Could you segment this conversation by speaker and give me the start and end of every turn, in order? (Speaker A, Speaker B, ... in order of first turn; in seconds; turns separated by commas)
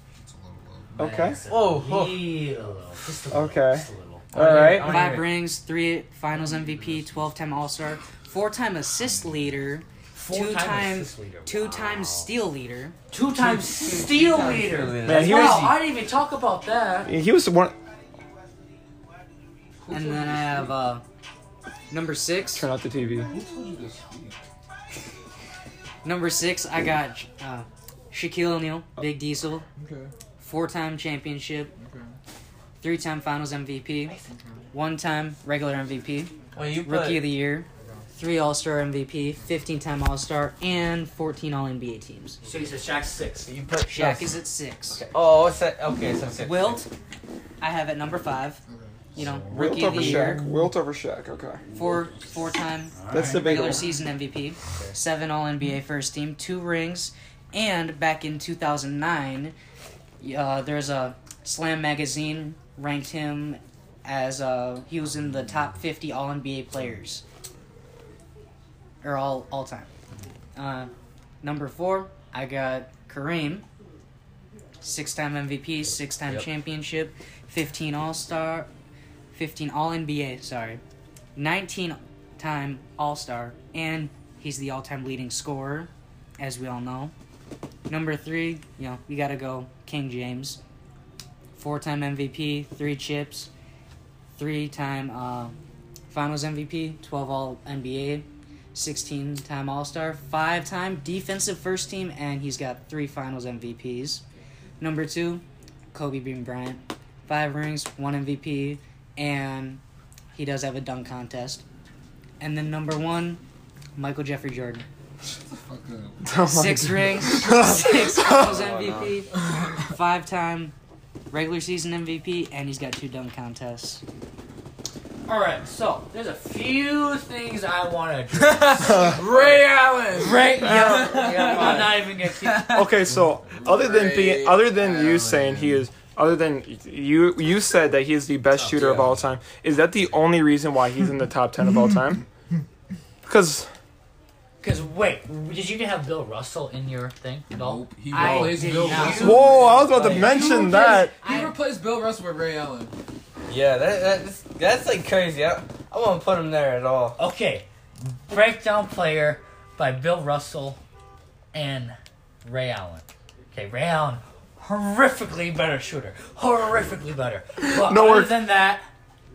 Speaker A: 0.2-1.0, Speaker B: 1.0-1.4, Speaker C: 1.0-5.0, Speaker D: 1.5-2.3, Speaker B: 3.3-5.0, Speaker D: 4.3-5.3, Speaker E: 4.9-13.0, Speaker A: 6.3-7.7, Speaker A: 8.9-9.8, Speaker C: 10.1-12.4, Speaker C: 13.1-17.1, Speaker D: 13.3-15.6, Speaker B: 15.1-15.8, Speaker E: 15.1-15.7, Speaker B: 17.1-17.8, Speaker A: 19.8-20.8, Speaker E: 19.9-21.0, Speaker E: 21.9-22.7, Speaker B: 22.5-23.3, Speaker A: 22.9-24.4, Speaker E: 26.0-29.7, Speaker A: 29.8-30.1, Speaker E: 30.4-31.7, Speaker A: 31.8-32.2, Speaker E: 32.8-34.2, Speaker A: 34.3-34.6, Speaker E: 34.7-42.4, Speaker D: 36.5-37.4, Speaker A: 37.8-38.1, Speaker C: 42.4-43.5, Speaker D: 43.5-44.4, Speaker E: 43.9-45.0, Speaker D: 45.0-46.8, Speaker E: 46.4-46.9, Speaker E: 47.6-48.6, Speaker A: 48.7-49.3, Speaker E: 49.1-50.4, Speaker C: 49.2-50.6, Speaker B: 49.5-51.7, Speaker E: 51.7-59.5, Speaker C: 52.9-53.8, Speaker B: 53.1-53.9, Speaker E: 60.2-67.2, Speaker E: 69.0-69.9, Speaker E: 70.5-70.9, Speaker E: 71.4-73.7, Speaker E: 74.8-78.7, Speaker E: 79.3-80.8, Speaker E: 81.4-87.1, Speaker E: 87.9-90.6, Speaker E: 91.5-93.5, Speaker E: 94.4-95.6, Speaker E: 96.1-104.2, Speaker E: 104.8-109.8, Speaker E: 110.3-111.6, Speaker E: 112.4-113.4, Speaker E: 114.0-114.9, Speaker A: 115.3-116.2, Speaker B: 116.2-118.5, Speaker E: 116.4-120.7, Speaker D: 118.3-119.2, Speaker E: 121.3-124.0, Speaker C: 125.3-129.6, Speaker D: 128.4-128.9, Speaker A: 128.8-130.5, Speaker B: 128.9-129.2, Speaker C: 130.1-132.8, Speaker B: 130.6-131.8, Speaker D: 130.8-132.9, Speaker B: 132.7-142.2, Speaker A: 133.1-135.9, Speaker C: 138.5-139.2, Speaker B: 143.2-143.7, Speaker C: 144.6-149.3, Speaker A: 147.5-152.9, Speaker E: 148.1-151.5, Speaker D: 148.9-149.1, Speaker B: 149.0-151.2, Speaker D: 153.5-157.2, Speaker C: 157.2-160.8, Speaker C: 161.5-168.9, Speaker B: 167.6-168.4